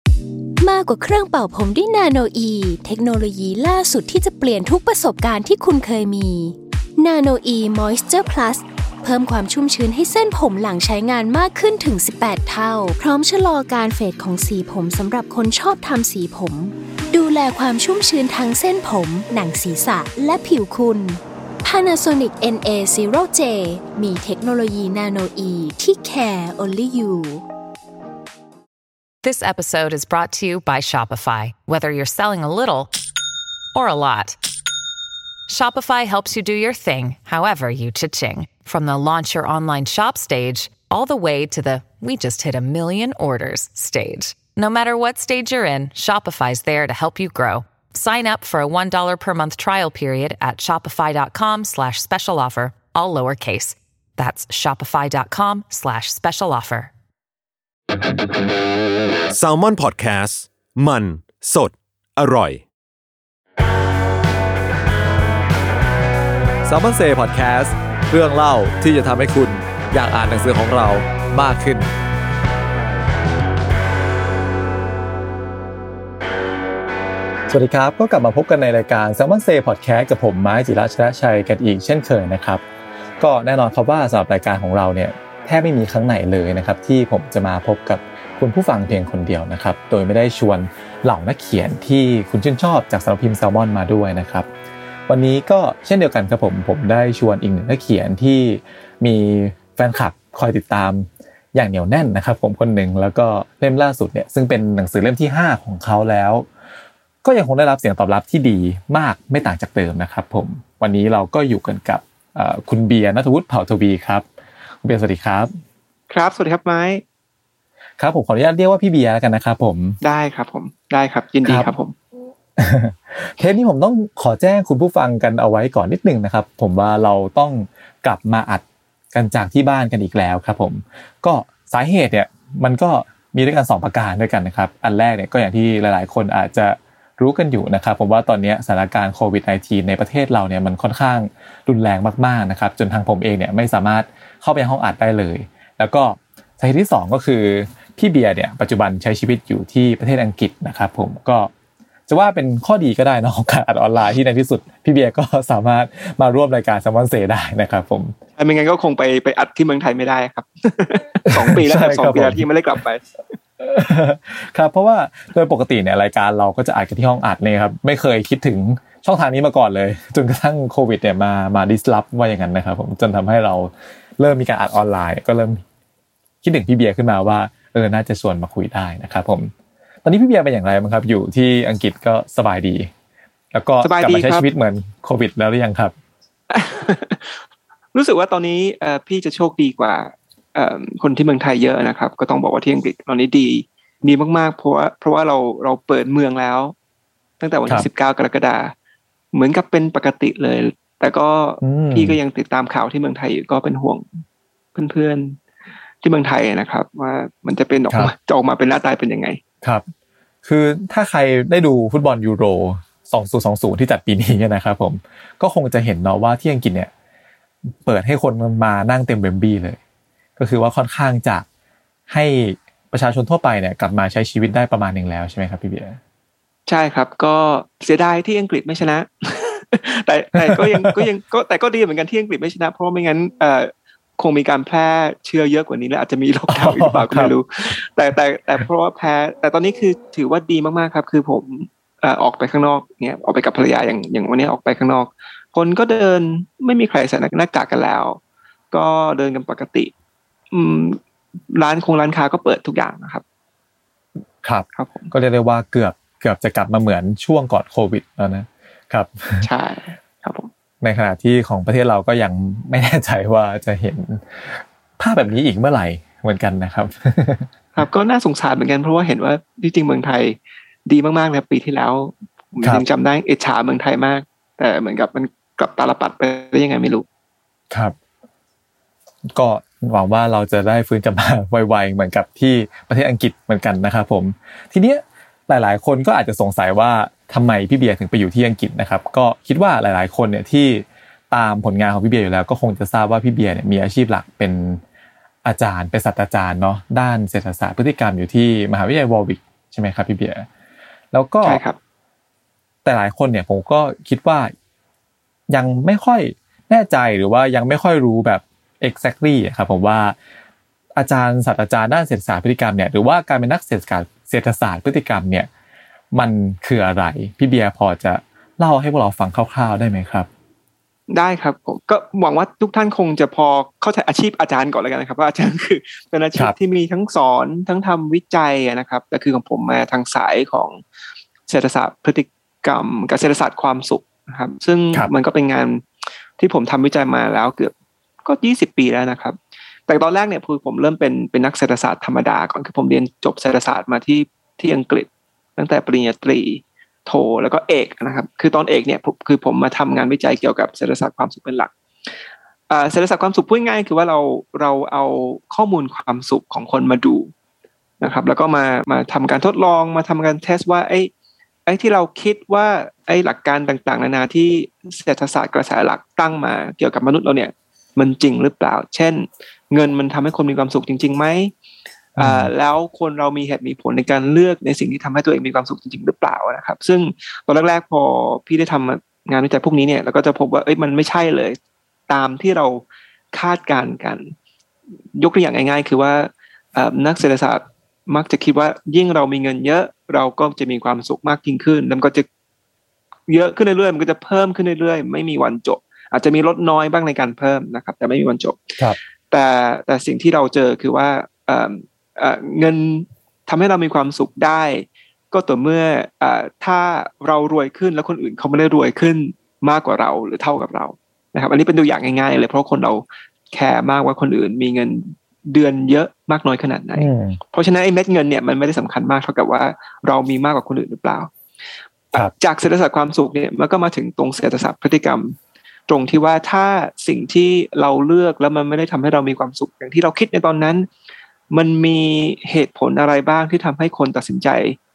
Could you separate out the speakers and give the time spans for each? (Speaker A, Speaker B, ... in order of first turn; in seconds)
Speaker A: 0.6-27.4
Speaker B: 29.2-32.9, 33.7-34.4, 35.5-56.9
Speaker C: 59.3-62.7
Speaker D: 66.6-71.9, 77.5-82.6, 83.2-94.5, 95.1-106.5, 107.2-114.2, 114.8-115.5, 118.0-120.0, 122.5-151.5, 152.1-158.1, 161.3-162.4, 163.6-175.6, 176.4-179.5, 180.0-182.9, 183.5-185.9, 201.6-202.2, 210.4-216.9, 217.7-219.8, 220.4-221.4, 222.1-226.0, 230.4-231.0, 236.5-237.3, 254.4-259.5, 260.8-267.5, 277.7-277.9, 279.3-294.8, 295.4-300.5, 301.1-301.6, 302.8-304.5, 305.5-310.1, 310.9-315.5, 316.1-320.3, 372.2-372.5, 416.9-417.4
Speaker E: 116.1-117.0, 120.0-121.9, 158.4-163.0, 183.8-184.4, 186.5-187.4, 187.9-196.7, 197.4-198.7, 199.3-204.2, 204.7-205.4, 206.0-209.4, 226.7-248.2, 248.7-249.9, 250.5-251.0, 251.5-253.2, 254.7-255.1, 259.4-260.5, 267.7-277.1, 301.4-301.8, 321.1-330.8, 331.5-335.8, 336.4-337.7, 338.2-351.7, 352.7-357.3, 358.0-361.1, 361.6-371.5, 372.1-381.6, 382.1-384.3, 385.1-392.2, 393.3-398.8, 399.3-421.3, 422.1-425.4, 425.9-430.9, 431.5-434.8